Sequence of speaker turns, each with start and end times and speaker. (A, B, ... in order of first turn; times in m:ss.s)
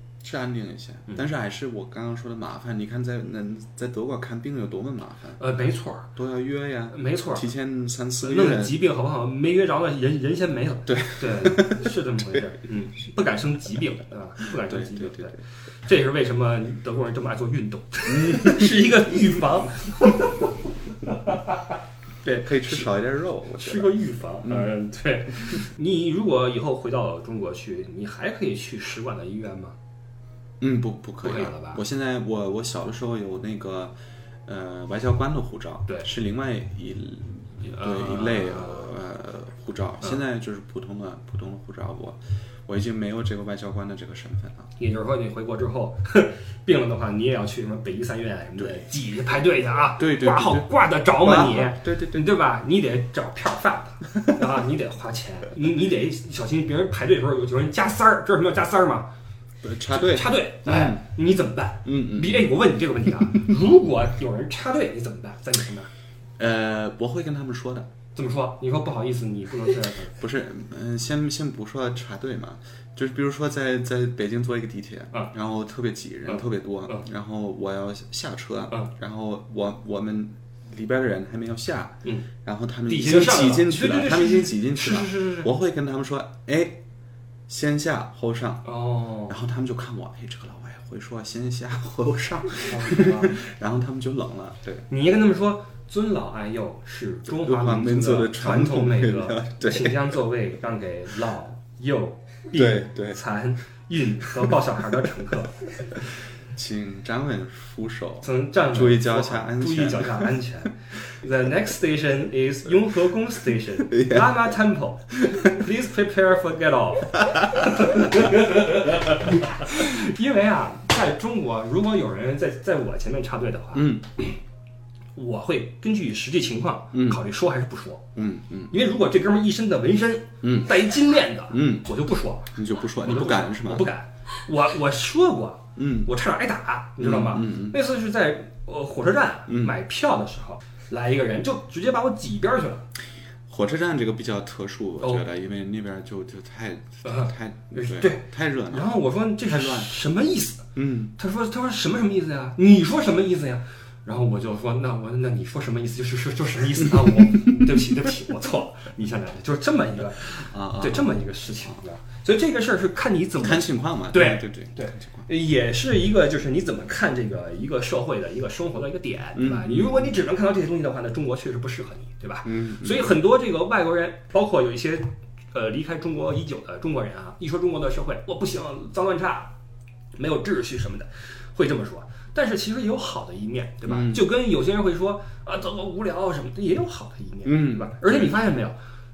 0:00.2-0:05.4 A
0:05.4-0:06.1 B
0:06.1-0:08.8 A
0:06.9-0:07.4 B
0:08.2-0:20.5 B
0:10.9-0:12.4 A
0:14.6-0:15.4 A
0:18.1-0:18.8 A
0:21.2-0:21.6 B
0:22.2-0:22.9 B
0:22.4-0:23.9 A
0:23.6-0:29.8 B
0:24.4-0:24.7 A
0:30.6-0:33.9 A
0:31.2-0:31.8 B
0:34.4-0:44.7 A
0:37.6-0:38.9 B
0:44.8-0:59.1 B
0:50.0-0:52.2 A
0:59.6-1:01.0 A
0:59.9-1:05.9 B
1:01.8-1:02.5 A
1:06.4-1:07.9 A
1:08.1-1:10.1 B
1:10.2-1:26.8 A
1:16.3-1:17.0 B
1:22.9-1:25.5 B
1:27.5-1:28.7 A
1:28.6-1:29.4 B
1:29.3-1:34.9 A
1:32.6-1:33.4 B
1:34.9-1:45.6 B
1:37.3-1:40.1 A
1:42.5-1:43.2 A
1:46.5-1:50.4 A
1:48.2-2:04.4 B
1:53.8-1:54.5 A
1:57.6-1:58.3 A
2:03.7-2:04.1 A
2:05.1-2:08.0 B
2:06.9-2:07.2 A
2:08.1-2:08.7 A
2:08.7-2:22.9 B
2:10.4-2:10.8 A
2:11.5-2:11.9 A
2:12.5-2:13.8 A
2:15.8-2:16.1 A
2:17.0-2:17.8 A
2:19.5-2:19.8 A
2:23.5-2:29.9 A
2:25.0-2:25.2 B
2:27.0-2:59.5 B
2:30.7-2:31.1 A
2:40.3-2:41.8 A
2:43.4-2:45.3 A
2:49.3-2:50.1 A
2:52.4-2:53.1 A
3:00.1-3:08.8 B
3:03.8-3:04.2 A
3:07.4-3:08.4 A